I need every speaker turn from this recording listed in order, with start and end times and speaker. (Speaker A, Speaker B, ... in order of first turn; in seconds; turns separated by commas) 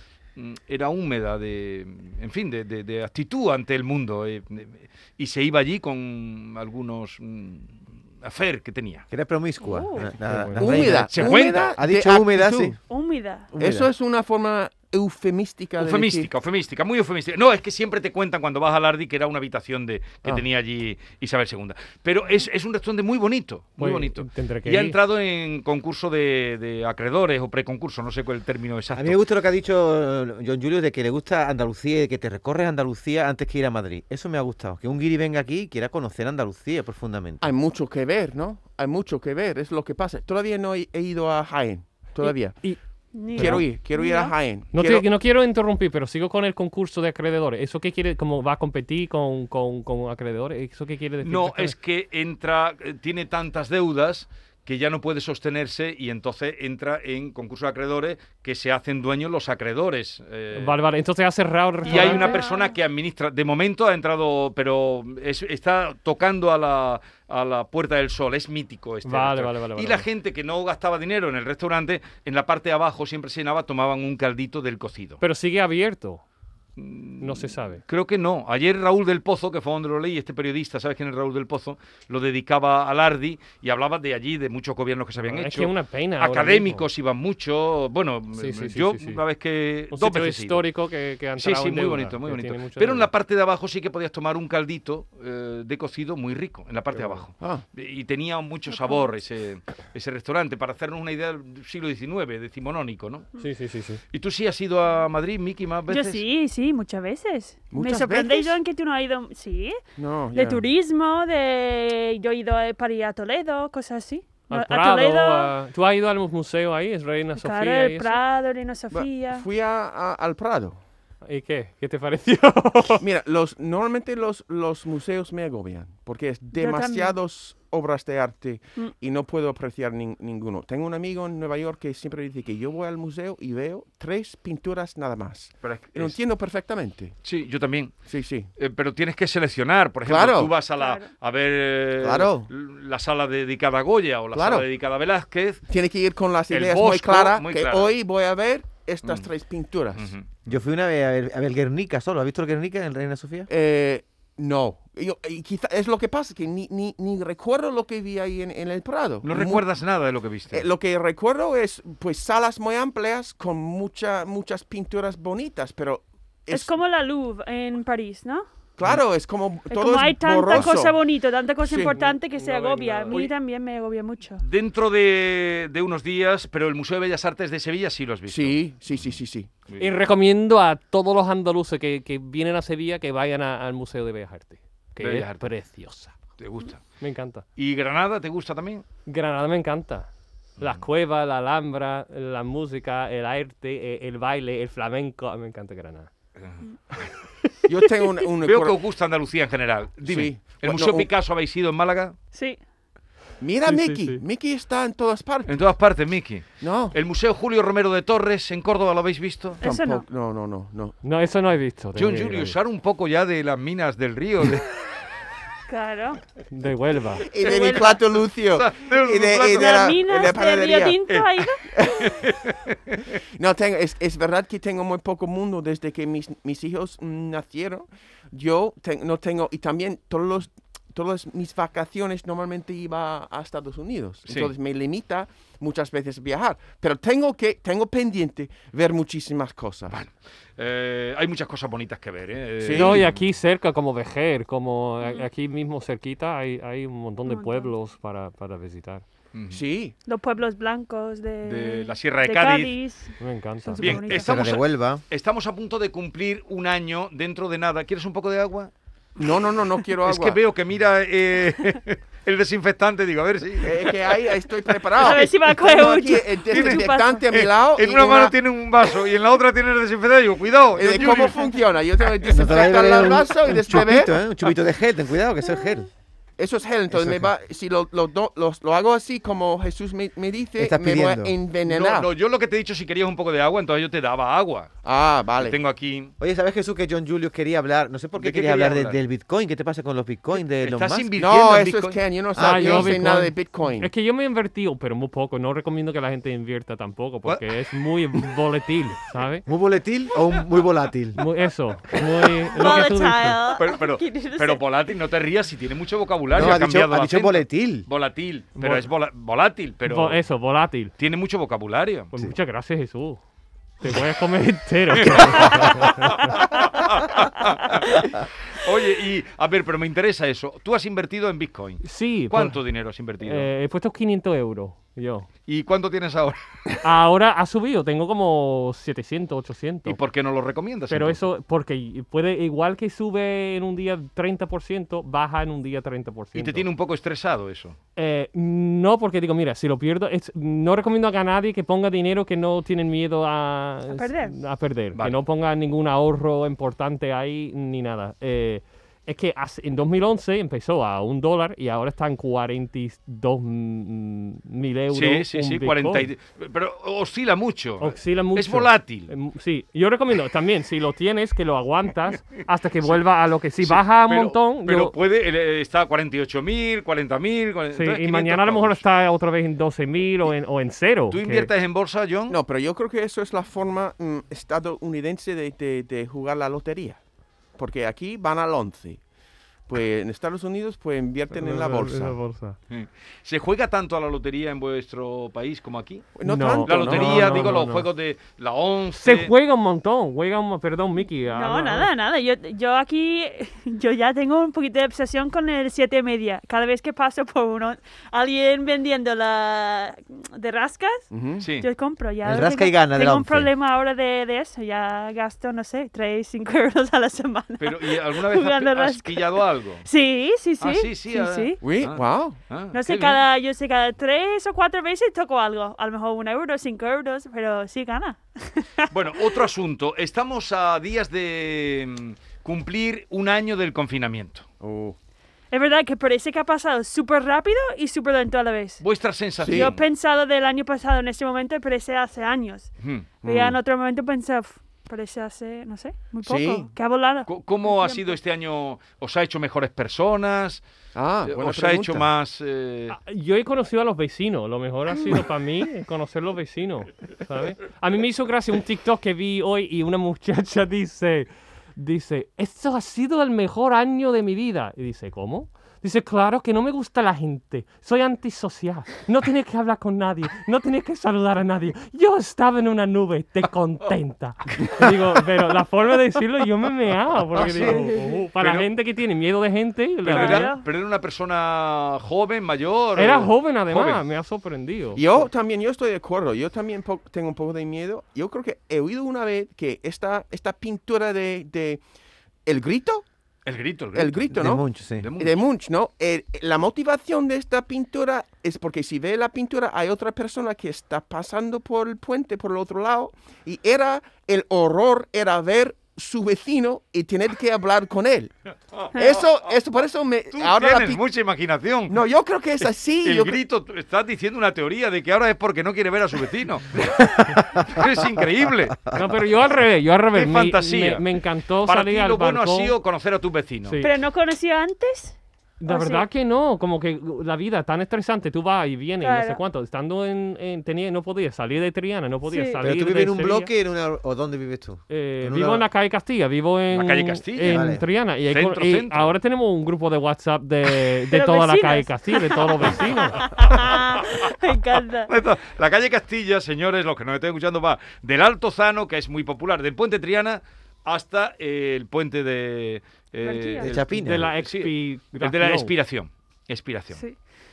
Speaker A: 0.4-9.1, Speaker B: 9.1-12.8, Speaker C: 9.6-10.1, Speaker D: 10.2-10.8, Speaker E: 10.6-12.8, Speaker A: 10.7-11.8, Speaker C: 12.9-13.5, Speaker B: 13.6-13.9, Speaker E: 13.6-16.3, Speaker A: 15.8-29.2, Speaker D: 23.8-25.0, Speaker B: 28.9-37.4, Speaker E: 37.4-42.7, Speaker D: 42.2-43.6, Speaker C: 43.1-44.4, Speaker E: 43.4-45.0, Speaker D: 44.7-51.8, Speaker A: 51.2-60.8, Speaker D: 60.5-62.4, Speaker C: 61.8-62.8, Speaker A: 61.9-75.2, Speaker D: 69.0-70.1, Speaker D: 75.2-76.2, Speaker A: 76.8-90.7, Speaker D: 77.2-77.8, Speaker D: 85.2-86.9, Speaker D: 88.3-89.2, Speaker D: 89.9-93.1, Speaker A: 91.4-103.3, Speaker D: 96.9-97.2, Speaker C: 98.7-99.1, Speaker D: 103.4-104.0, Speaker A: 104.1-106.2, Speaker C: 105.9-109.8, Speaker E: 107.7-108.6, Speaker E: 110.0-110.7, Speaker C: 110.3-115.5, Speaker D: 114.5-118.2, Speaker C: 117.4-119.5, Speaker E: 118.9-120.8, Speaker D: 121.2-123.0, Speaker E: 123.0-137.2, Speaker C: 126.5-127.2, Speaker A: 135.6-136.2, Speaker A: 137.2-138.0, Speaker E: 138.1-138.5, Speaker A: 138.6-145.6, Speaker E: 140.1-140.5, Speaker C: 140.7-141.1, Speaker E: 142.0-142.5, Speaker E: 144.3-144.7, Speaker E: 145.7-150.1, Speaker A: 146.5-147.9, Speaker A: 150.0-150.5, Speaker B: 150.5-153.5, Speaker E: 153.5-159.7, Speaker A: 159.2-160.7, Speaker E: 160.5-166.7, Speaker C: 166.5-168.4, Speaker E: 168.8-171.0, Speaker C: 169.7-174.4, Speaker E: 171.7-172.0, Speaker D: 171.9-173.2, Speaker A: 174.4-179.2, Speaker E: 178.3-179.5, Speaker D: 179.8-186.2, Speaker A: 185.0-185.5, Speaker A: 186.4-186.8, Speaker D: 187.0-187.4, Speaker A: 187.6-188.8, Speaker D: 189.1-190.1, Speaker D: 190.6-196.1, Speaker A: 196.4-197.1, Speaker E: 197.7-198.8, Speaker A: 198.4-202.2, Speaker E: 200.1-201.1, Speaker C: 202.3-202.6, Speaker E: 203.4-205.6, Speaker D: 203.7-204.2, Speaker A: 205.5-209.6, Speaker E: 206.6-207.0, Speaker C: 209.6-210.1, Speaker E: 209.6-211.0, Speaker D: 211.0-212.6, Speaker A: 212.0-214.8, Speaker C: 215.7-216.2, Speaker D: 216.5-217.3, Speaker E: 217.3-221.0, Speaker C: 217.4-218.0, Speaker A: 218.5-219.9, Speaker C: 219.6-221.6, Speaker A: 221.1-223.0, Speaker E: 221.8-222.1, Speaker E: 223.4-240.0, Speaker A: 234.3-234.5, Speaker A: 239.9-243.2, Speaker E: 242.6-243.0, Speaker D: 242.7-249.0, Speaker C: 245.0-245.3, Speaker C: 247.3-247.7, Speaker A: 249.3-249.6, Speaker E: 249.5-249.9, Speaker C: 250.1-254.3, Speaker A: 251.4-252.8, Speaker D: 253.2-253.8, Speaker A: 253.8-258.7, Speaker B: 253.9-255.0, Speaker E: 259.2-260.4, Speaker A: 260.0-264.3, Speaker E: 263.6-268.3, Speaker A: 265.0-265.2, Speaker C: 265.0-267.2, Speaker A: 266.5-271.5, Speaker E: 270.8-274.1, Speaker B: 272.3-275.9, Speaker E: 276.4-282.1, Speaker B: 276.9-277.3, Speaker B: 280.6-281.4, Speaker A: 281.7-284.8, Speaker E: 284.8-285.6, Speaker A: 285.4-286.1, Speaker B: 286.2-291.1, Speaker A: 288.2-289.0, Speaker A: 290.6-292.0, Speaker E: 291.2-293.9, Speaker B: 292.4-293.1, Speaker D: 292.4-299.5, Speaker B: 299.5-301.2, Speaker D: 301.2-303.4, Speaker C: 302.5-304.6, Speaker A: 303.6-310.2, Speaker B: 306.3-307.9, Speaker D: 308.6-308.9, Speaker D: 309.9-310.9, Speaker A: 311.0-312.1, Speaker D: 312.1-313.2, Speaker D: 313.8-316.4, Speaker A: 314.9-323.5, Speaker D: 321.8-322.6, Speaker D: 323.2-325.3, Speaker A: 325.5-326.8, Speaker D: 326.8-330.0, Speaker A: 329.9-331.2, Speaker D: 330.9-336.7, Speaker A: 336.4-337.8, Speaker D: 338.0-356.1, Speaker C: 343.9-344.4, Speaker A: 354.9-359.1, Speaker D: 357.8-364.9, Speaker A: 363.6-368.8, Speaker D: 367.7-371.5, Speaker A: 371.1-372.4, Speaker E: 372.3-377.0, Speaker E: 377.6-379.0, Speaker E: 379.7-382.2, Speaker D: 381.3-382.6, Speaker A: 382.7-386.1, Speaker E: 386.2-387.6, Speaker D: 386.2-387.9, Speaker A: 386.6-389.3, Speaker D: 389.0-391.9, Speaker C: 391.3-401.1, Speaker E: 401.1-401.5, Speaker A: 401.4-401.7, Speaker C: 401.6-411.6, Speaker B: 402.2-403.5, Speaker A: 407.6-409.9, Speaker A: 410.6-413.2, Speaker E: 411.6-412.4, Speaker C: 412.7-419.4, Speaker A: 418.9-424.4, Speaker E: 424.6-425.0, Speaker C: 425.5-428.8, Speaker A: 428.8-429.8, Speaker E: 429.4-429.7, Speaker C: 429.5-432.7, Speaker A: 432.8-433.2, Speaker C: 433.2-438.1, Speaker E: 433.2-433.6, Speaker E: 436.2-436.7, Speaker A: 437.3-440.6, Speaker E: 440.9-442.1, Speaker A: 441.2-443.0, Speaker D: 442.9-470.5, Speaker A: 467.3-468.7, Speaker A: 470.1-474.0, Speaker C: 470.1-470.7, Speaker D: 473.0-475.0, Speaker E: 474.9-481.8, Speaker E: 482.5-483.1, Speaker A: 483.5-484.4, Speaker E: 483.9-484.6, Speaker B: 484.3-485.1, Speaker A: 485.0-485.4, Speaker E: 485.2-498.3, Speaker E: 498.9-501.0, Speaker C: 498.9-499.2, Speaker A: 500.3-502.0, Speaker E: 501.9-503.4, Speaker A: 502.6-506.9, Speaker B: 506.8-507.9, Speaker A: 507.6-508.8, Speaker D: 508.9-512.7, Speaker A: 510.1-511.1, Speaker A: 511.6-513.8, Speaker D: 513.6-513.9, Speaker C: 513.8-515.2, Speaker D: 515.6-523.5, Speaker C: 515.7-516.1, Speaker C: 519.0-519.4, Speaker C: 522.2-522.6, Speaker B: 522.6-525.7, Speaker D: 524.9-533.2, Speaker A: 526.7-527.7, Speaker B: 527.5-527.8, Speaker A: 528.3-529.1, Speaker C: 531.1-535.1, Speaker A: 533.5-534.1, Speaker A: 535.1-547.0, Speaker C: 543.2-543.7, Speaker B: 543.6-544.3, Speaker D: 543.9-545.7